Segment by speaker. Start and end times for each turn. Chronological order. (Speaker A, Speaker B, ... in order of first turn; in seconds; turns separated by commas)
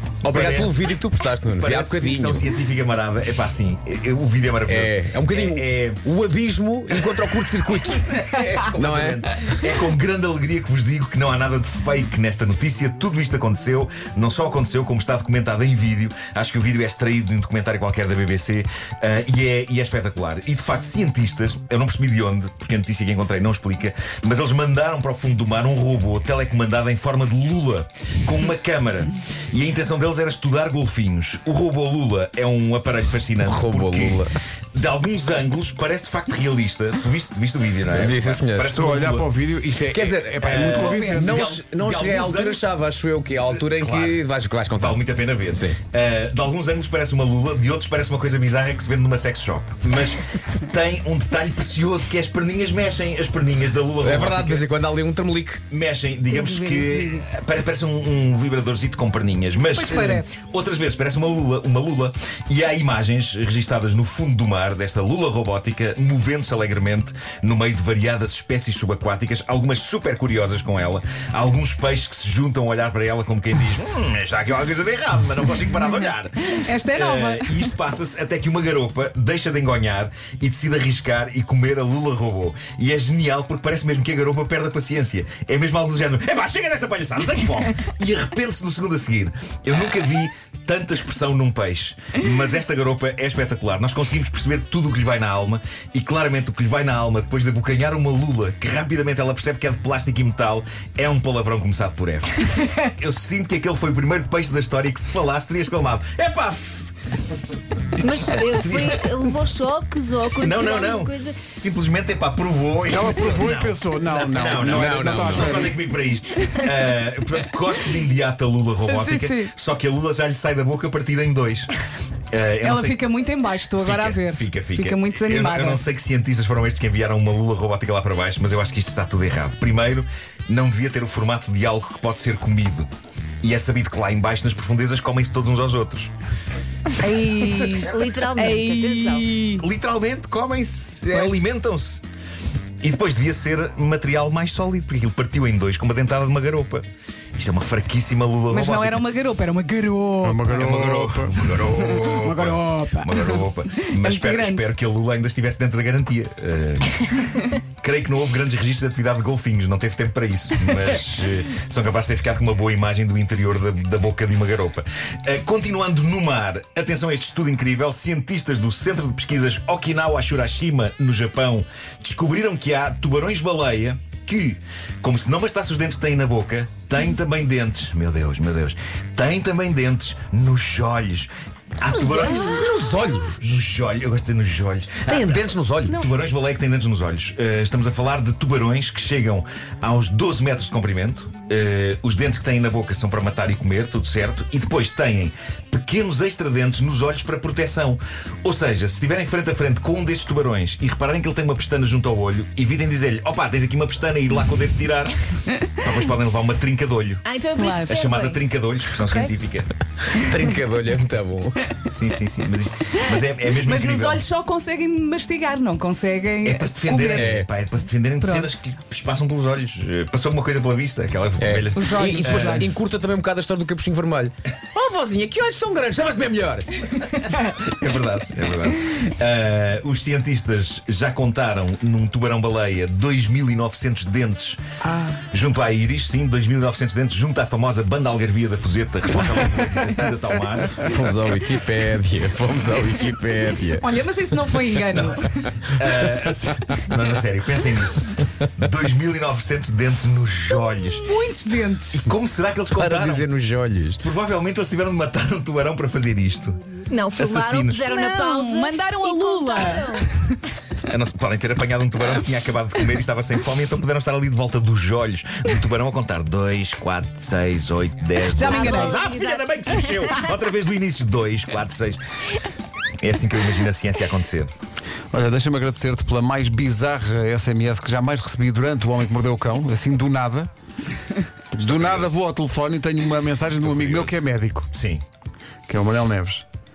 Speaker A: 0.2-0.9, Speaker B: 0.2-2.5, Speaker A: 1.4-6.0, Speaker B: 4.7-8.1, Speaker A: 6.9-7.4, Speaker A: 7.9-39.3, Speaker B: 8.8-9.2, Speaker B: 33.5-34.3, Speaker B: 37.9-38.7, Speaker C: 38.7-41.5, Speaker B: 39.9-45.8, Speaker A: 40.4-42.7, Speaker D: 40.8-41.1, Speaker A: 43.5-44.2, Speaker A: 44.7-54.7, Speaker B: 54.0-55.6, Speaker A: 55.7-106.9, Speaker E: 56.4-57.2, Speaker D: 59.7-60.3, Speaker D: 76.5-77.7, Speaker E: 108.0-111.4, Speaker A: 108.3-109.1, Speaker A: 110.4-121.7, Speaker C: 112.8-115.8, Speaker B: 114.7-115.6, Speaker D: 118.9-119.5, Speaker A: 122.3-123.2, Speaker D: 122.6-125.8, Speaker A: 123.8-132.9, Speaker A: 133.4-136.1, Speaker D: 137.0-139.6, Speaker E: 137.8-139.3, Speaker A: 139.6-142.0, Speaker A: 142.8-146.8, Speaker A: 147.4-149.1, Speaker D: 148.5-150.7, Speaker C: 150.2-151.3, Speaker A: 150.5-205.2, Speaker D: 151.7-154.7, Speaker B: 182.0-183.4, Speaker B: 185.1-186.0, Speaker A: 205.8-207.2, Speaker E: 207.2-208.4, Speaker D: 207.6-208.0, Speaker A: 207.9-209.7, Speaker E: 209.0-209.3, Speaker B: 210.1-211.7, Speaker A: 211.8-214.2, Speaker D: 213.1-217.4, Speaker A: 216.4-222.7, Speaker B: 217.1-217.5, Speaker D: 218.2-218.6, Speaker B: 221.4-227.2, Speaker D: 221.7-222.7, Speaker A: 227.7-234.6, Speaker D: 234.8-235.2, Speaker A: 235.3-240.9, Speaker B: 240.9-243.8, Speaker D: 243.8-245.5, Speaker A: 244.9-251.1, Speaker D: 251.0-252.0, Speaker A: 251.9-253.3, Speaker B: 252.8-254.0, Speaker A: 254.0-256.6, Speaker E: 256.9-260.1, Speaker A: 257.2-257.9, Speaker D: 257.9-260.1, Speaker A: 260.9-272.0, Speaker D: 268.3-269.1, Speaker E: 268.4-270.2, Speaker A: 273.0-274.5, Speaker C: 275.1-280.5, Speaker C: 281.5-284.7, Speaker A: 281.6-282.1, Speaker A: 283.6-284.2, Speaker A: 284.7-285.0, Speaker C: 285.7-286.4